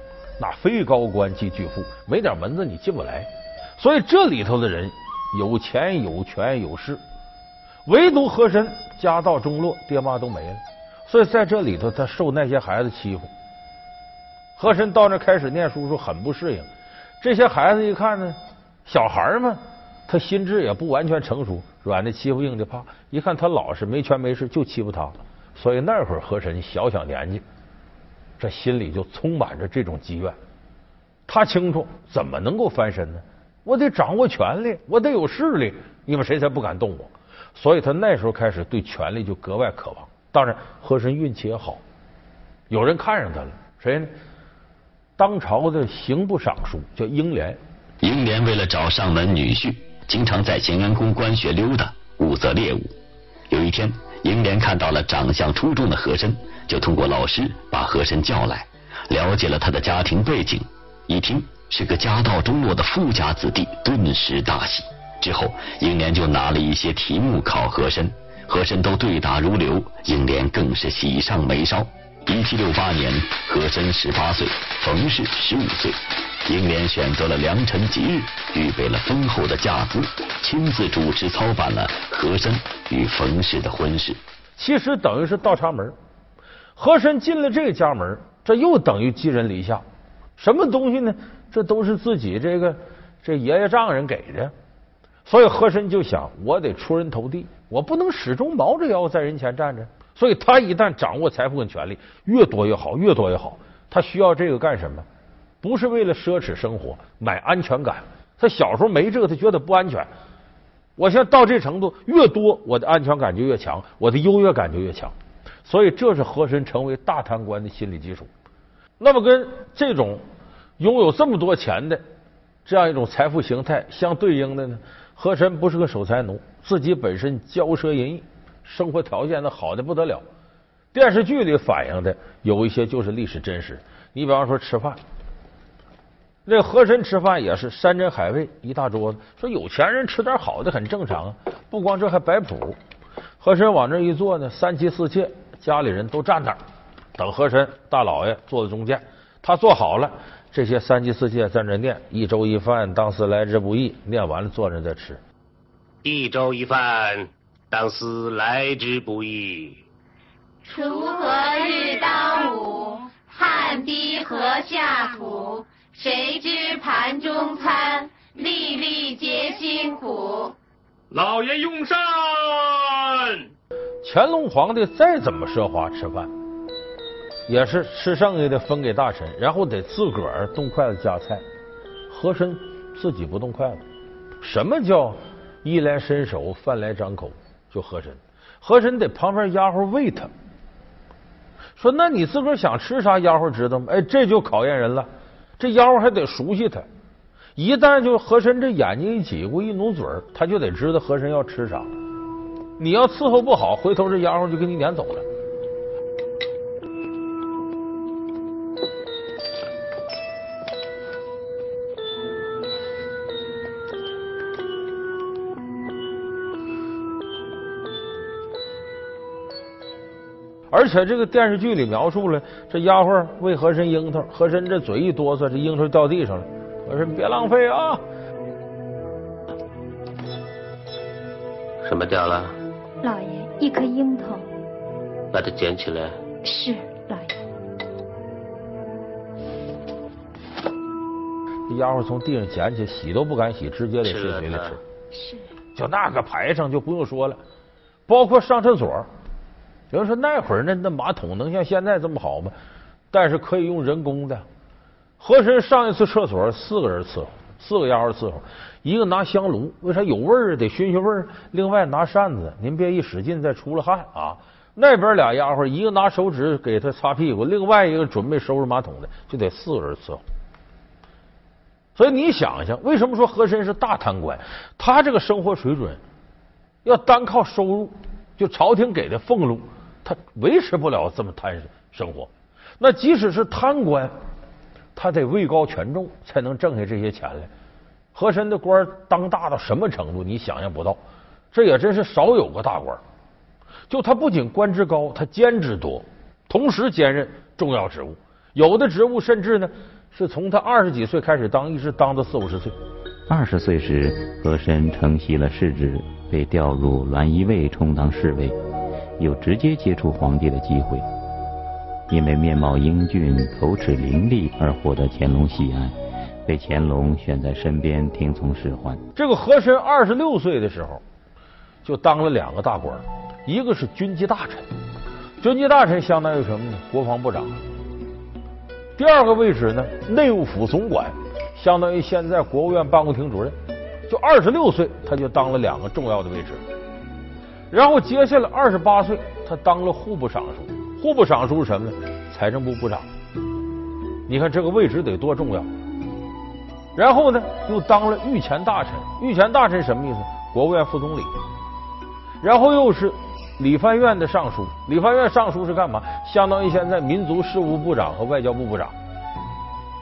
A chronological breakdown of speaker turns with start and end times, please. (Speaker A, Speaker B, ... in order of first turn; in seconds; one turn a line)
Speaker A: 0.4-7.0
Speaker A: 7.9-13.3
Speaker A: 14.6-16.7
Speaker A: 17.2-27.4
Speaker A: 28.4-30.4
Speaker A: 31.3-41.8
Speaker A: 42.7-44.1
Speaker A: 45.2-47.6
Speaker B: 48.0-52.9
Speaker B: 53.5-84.2
Speaker A: 84.6-86.0
Speaker A: 86.8-89.8
Speaker A: 90.4-94.5
Speaker A: 95.3-105.1
Speaker A: 105.6-110.1
Speaker A: 111.0-115.1
Speaker A: 115.7-118.3
Speaker A: 119.0-120.2
Speaker A: 120.8-122.0
Speaker A: 122.7-130.2
Speaker A: 130.9-135.0
Speaker A: 136.5-142.8
Speaker A: 143.4-146.6
Speaker A: 147.2-155.2
Speaker C: 156.0-159.8
Speaker D: 160.6-170.6
Speaker E: 171.1-173.3
Speaker A: 174.0-176.3
Speaker A: 177.5-181.4
Speaker A: 182.1-183.8
Speaker A: 184.4-190.3
Speaker A: 191.8-195.1
Speaker A: 195.6-196.9
Speaker A: 197.6-201.9
Speaker A: 202.8-205.2
Speaker A: 220.7-228.0
Speaker C: 231.8-232.6
Speaker F: 233.0-234.5
Speaker C: 235.3-236.2
Speaker F: 236.4-237.3
Speaker A: 241.7-244.8
Speaker C: 244.0-244.8
Speaker F: 245.1-245.5
Speaker A: 245.8-247.4
Speaker A: 248.1-249.1
Speaker A: 249.9-252.5
Speaker A: 253.1-254.4
Speaker A: 255.2-270.2
Speaker A: 272.0-276.0
Speaker A: 276.8-284.1
Speaker A: 285.0-287.5
Speaker A: 288.1-291.0
Speaker A: 291.5-293.0
Speaker A: 293.9-302.8
Speaker G: 303.3-308.6
Speaker G: 309.2-311.1
Speaker G: 312.1-315.9
Speaker G: 316.5-319.0
Speaker A: 319.2-321.0
Speaker A: 321.9-324.7
Speaker A: 325.4-327.5
Speaker A: 329.0-333.6
Speaker A: 334.1-336.6
Speaker A: 337.7-343.1
Speaker A: 344.3-345.7
Speaker A: 347.0-351.3
Speaker A: 352.4-358.9